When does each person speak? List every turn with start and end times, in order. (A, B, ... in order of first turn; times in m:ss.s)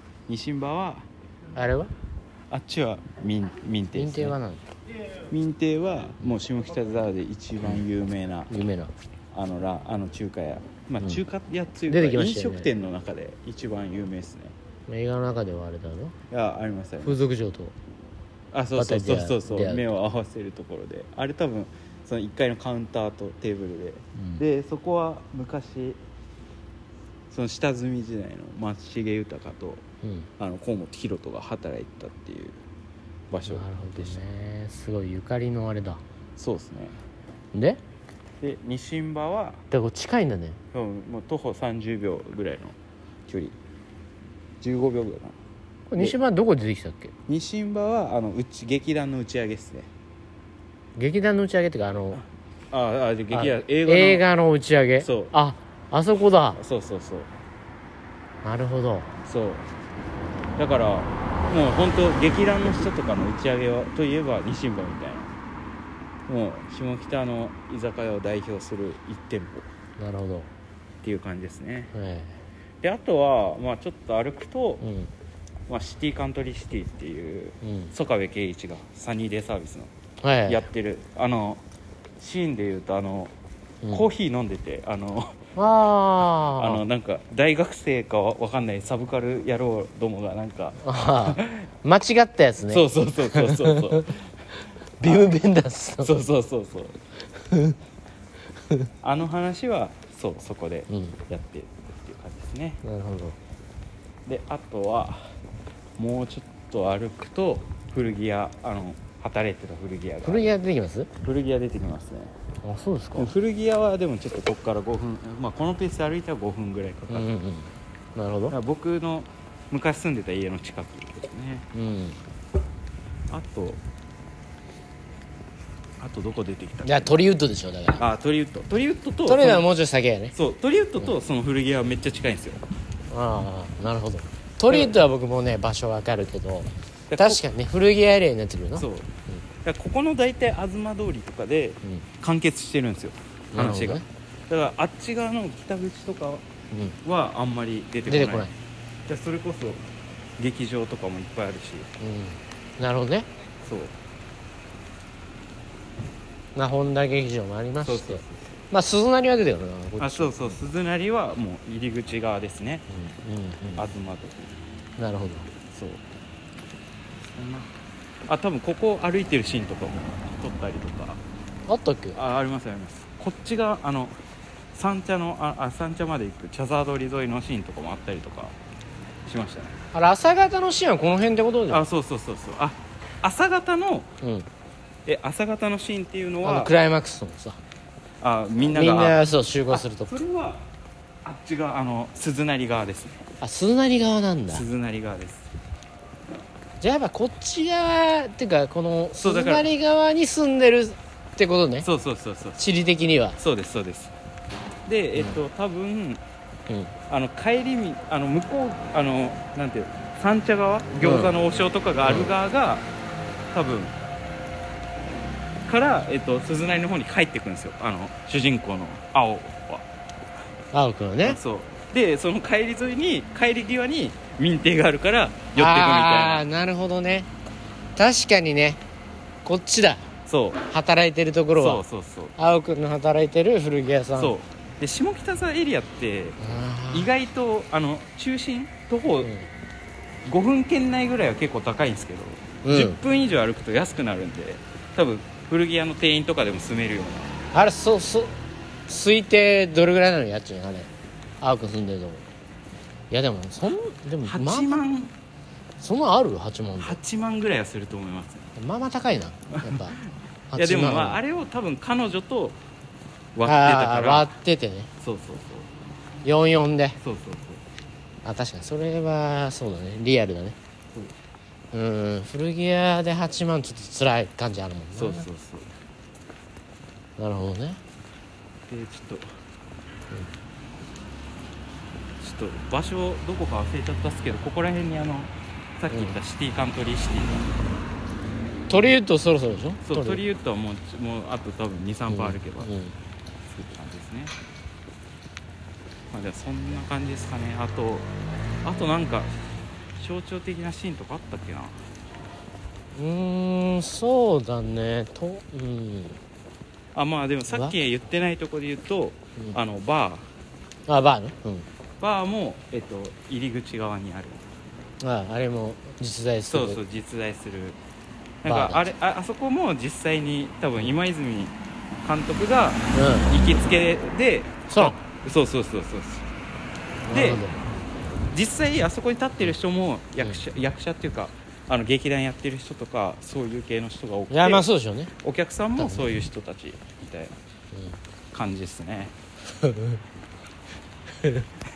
0:00.3-0:01.1 A
0:01.5-0:01.9 B
0:02.5-0:04.4 A
0:03.9-0:04.6 B
0:05.3-0:08.5 A
0:08.5-0:08.9 B
0:09.3-0:14.6 A
0:11.9-0:12.7 B
0:14.9-0:16.2 B
0:16.3-0:17.3 A
0:17.0-0:17.8 B
0:18.5-0:26.0 A
0:18.8-0:19.9 B
0:24.2-0:24.4 B
0:27.3-0:29.8 A
0:30.0-0:30.3 B
0:30.4-0:32.6 A
0:33.3-0:34.2 A
0:33.5-0:36.0 B
0:36.4-0:37.0 A
0:37.5-0:37.8 B
0:38.4-0:39.6 A
0:39.7-0:40.6 B
0:40.7-0:42.8 A
0:43.3-0:43.6 A
0:44.6-0:45.4 A
0:45.9-0:47.1 B
0:47.3-0:49.9 A
0:51.0-0:52.2 B
0:52.2-0:54.2 A
0:53.3-0:56.6 B
0:55.0-0:55.3 A
0:56.6-0:57.3 A
0:58.4-0:59.1 B
0:59.2-0:59.6 A
1:00.6-1:05.3 A
1:06.3-1:09.7 A
1:10.0-1:10.5 B
1:11.0-1:11.9 A
1:11.9-1:12.4 B
1:12.8-1:14.9 A
1:14.8-1:15.1 B
1:15.7-1:19.9 A
1:17.6-1:17.9 B
1:20.2-1:20.7 B
1:20.5-1:21.6 A
1:22.2-1:23.3 A
1:23.9-1:25.4 A
1:25.6-1:26.8 B
1:26.5-1:31.6 A
1:30.8-1:34.1 B
1:32.7-1:34.2 A
1:35.0-1:36.2 B
1:35.0-1:35.3 A
1:36.0-1:37.0 A
1:37.4-1:37.8 B
1:39.0-1:42.8 A
1:40.9-1:41.2 B
1:42.8-1:43.4 B
1:44.3-1:45.4 A
1:46.0-1:50.5 A
1:50.2-1:51.1 B
1:51.2-1:52.3 A
1:52.6-1:53.3 B
1:53.2-1:57.3 A
1:57.1-1:58.6 B
1:58.5-2:01.6 A
2:01.7-2:02.2 B
2:03.3-2:03.8 A
2:06.0-2:07.2 A
2:06.8-2:08.0 B
2:08.0-2:09.7 A
2:09.3-2:10.3 B
2:10.3-2:12.6 A
2:13.1-2:19.4 B
2:14.7-2:15.0 A
2:17.1-2:17.4 A
2:18.8-2:19.1 A
2:19.6-2:26.4 A
2:23.5-2:24.0 B
2:26.7-2:27.0 B
2:27.0-2:28.5 A
2:28.1-2:28.5 B
2:29.1-2:29.8 A
2:30.4-2:31.9 A
2:32.0-2:33.3 B
2:33.6-2:33.9 A
2:36.6-2:40.6 B
2:37.8-2:38.6 A
2:40.0-2:42.8 A
2:42.9-2:43.8 B
2:43.8-2:44.6 A
2:45.0-2:45.5 B
2:45.7-2:46.0 A
2:47.2-2:47.7 A
2:48.3-2:51.2 A
2:51.7-2:52.2 B
2:52.1-2:54.2 A
2:54.7-2:58.6 A
2:59.2-2:59.8 A
2:59.9-3:01.8 B
3:01.7-3:04.1 A
3:04.2-3:04.5 B
3:05.1-3:06.7 A
3:06.4-3:07.6 B
3:08.2-3:10.7 A
3:08.7-3:10.2 B
3:11.2-3:13.2 A
3:13.4-3:14.6 B
3:14.5-3:15.5 A
3:16.8-3:21.9 B
3:19.2-3:19.7 A
3:21.8-3:22.7 A
3:22.6-3:23.4 B
3:23.4-3:24.2 A
3:24.9-3:26.2 A
3:27.1-3:32.9 A
3:31.0-3:31.3 B
3:32.0-3:32.3 B
3:33.5-3:34.0 A
3:35.7-3:39.8 A
3:40.7-3:41.4 B
3:41.2-3:46.5 A
3:45.6-3:47.3 B
3:48.0-3:48.8 B
3:49.4-3:50.1 B
3:50.3-3:50.6 A
3:50.7-3:51.8 B
3:51.6-3:52.4 A
3:52.4-3:54.4 B
3:54.2-3:56.4 A
3:56.4-3:57.1 B
3:56.9-3:59.3 A
3:59.2-3:59.5 B
4:00.3-4:07.4 A
4:02.6-4:03.0 B
4:07.5-4:08.3 B
4:08.9-4:10.9 B
4:11.4-4:12.3 B
4:13.1-4:14.8 B
4:14.2-4:15.1 A
4:15.8-4:17.0 B
4:16.8-4:18.5 A
4:18.6-4:20.0 B
4:19.6-4:20.0 A
4:20.5-4:21.2 B
4:20.5-4:22.6 A
4:23.4-4:24.3 A
4:23.4-4:24.9 B
4:25.0-4:25.7 A
4:26.2-4:27.0 B
4:27.0-4:27.6 A
4:28.2-4:30.6 B
4:31.7-4:35.3 B
4:35.0-4:35.7 A
4:37.2-4:37.8 B
4:38.7-4:39.3 A
4:42.2-4:47.5 A
4:45.9-4:46.2 B
4:48.7-4:50.2 B
4:49.8-4:52.7 A
4:52.1-4:53.0 B
4:53.5-4:54.3 A
4:56.1-4:58.1 A
4:58.6-4:59.4 A
5:00.0-5:01.8 A
5:03.0-5:06.2 B
5:07.0-5:10.3 A
5:10.9-5:11.7 B
5:12.0-5:14.4 A
5:15.0-5:16.8 B
5:16.5-5:17.8 A
5:18.4-5:26.3 A
5:18.4-5:18.8 B
5:22.9-5:23.3 B
5:24.7-5:25.0 B
5:27.1-5:27.6 B
5:27.1-5:27.4 A
5:28.3-5:34.7 A
5:34.3-5:35.1 B
5:35.2-5:37.4 A
5:35.8-5:36.2 B
5:37.7-5:38.0 B
5:38.3-5:39.1 A
5:39.6-5:40.0 B